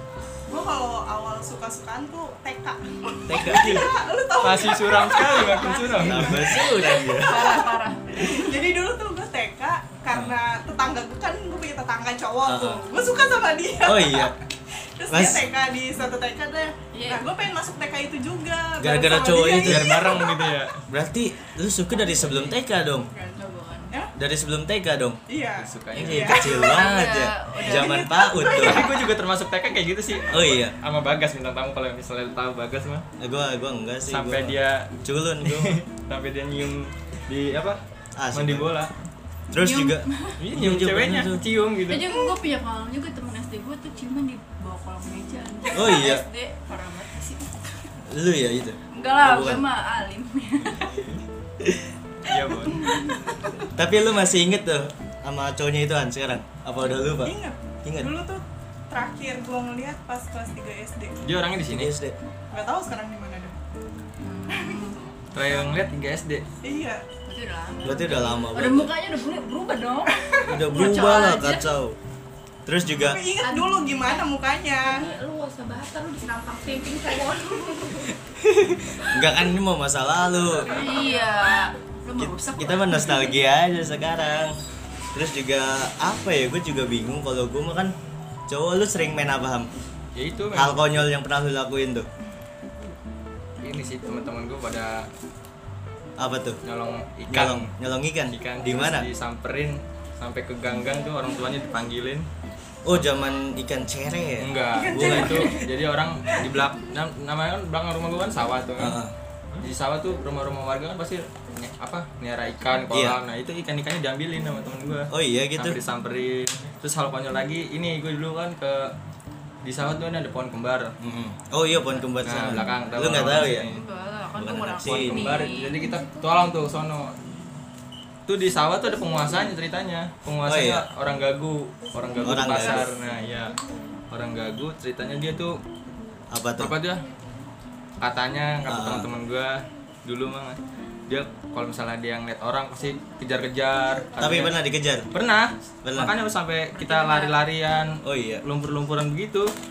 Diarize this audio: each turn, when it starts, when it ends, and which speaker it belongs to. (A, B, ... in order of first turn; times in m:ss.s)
0:00.5-0:14.4 A
0:03.3-0:03.9 B
0:03.4-0:03.9 C
0:04.4-0:06.6 C
0:06.0-0:07.4 B
0:06.8-0:08.5 D
0:10.1-0:10.4 B
0:12.4-0:12.9 B
0:13.8-0:14.4 B
0:15.0-0:20.6 A
0:15.1-0:15.4 B
0:16.9-0:17.3 D
0:18.8-0:20.1 B
0:19.5-0:20.8 C
0:20.9-0:23.1 B
0:23.2-0:24.0 D
0:24.2-0:25.2 B
0:25.3-0:26.8 A
0:25.6-0:26.4 C
0:25.9-0:28.9 B
0:26.3-0:28.2 D
0:27.6-0:28.9 A
0:28.4-0:33.0 C
0:30.3-0:30.8 B
0:33.2-0:35.8 B
0:34.1-0:37.8 C
0:38.2-0:38.8 B
0:38.3-0:38.9 C
0:39.5-0:41.4 B
0:39.6-0:40.4 D
0:40.4-0:42.2 C
0:41.9-0:47.7 D
0:45.7-0:46.2 B
0:48.1-0:49.7 B
0:48.9-0:50.9 D
0:50.6-0:51.2 C
0:51.6-0:51.9 B
0:52.3-0:52.9 C
0:52.8-0:53.2 A
0:52.8-0:53.7 D
0:53.7-0:58.1 B
0:57.1-1:01.2 A
1:01.2-1:01.9 C
1:01.6-1:02.2 B
1:02.5-1:03.6 A
1:04.2-1:05.6 D
1:04.5-1:04.9 A
1:05.3-1:06.4 C
1:06.6-1:07.0 A
1:07.3-1:11.7 D
1:07.8-1:08.9 B
1:08.0-1:08.4 A
1:10.1-1:11.1 A
1:10.4-1:12.0 B
1:12.6-1:13.3 B
1:12.9-1:15.1 A
1:13.4-1:14.3 E
1:14.8-1:18.2 E
1:18.4-1:20.8 B
1:20.4-1:21.3 A
1:20.7-1:23.3 D
1:22.2-1:24.6 B
1:25.1-1:27.9 B
1:28.5-1:29.7 B
1:30.2-1:31.0 C
1:30.5-1:32.1 B
1:33.6-1:35.1 C
1:36.2-1:36.6 B
1:36.6-1:37.7 C
1:37.3-1:39.1 B
1:38.3-1:42.3 C
1:42.8-1:45.5 B
1:44.4-1:49.0 C
1:44.7-1:45.7 A
1:48.8-1:49.1 B
1:49.6-1:59.0 C
1:52.9-1:53.2 B
1:55.1-1:55.8 B
1:59.6-2:00.9 C
2:01.0-2:03.7 B
2:02.2-2:03.8 C
2:03.4-2:05.8 D
2:04.4-2:05.3 B
2:04.8-2:07.2 C
2:08.3-2:13.6 C
2:10.4-2:10.8 B
2:12.2-2:12.9 B
2:14.1-2:15.6 C
2:16.3-2:16.8 B
2:16.6-2:17.1 C
2:18.0-2:24.6 C
2:18.7-2:19.1 B
2:24.2-2:25.1 B
2:25.1-2:29.5 C
2:25.8-2:26.2 B
2:26.7-2:27.4 D
2:28.0-2:28.4 B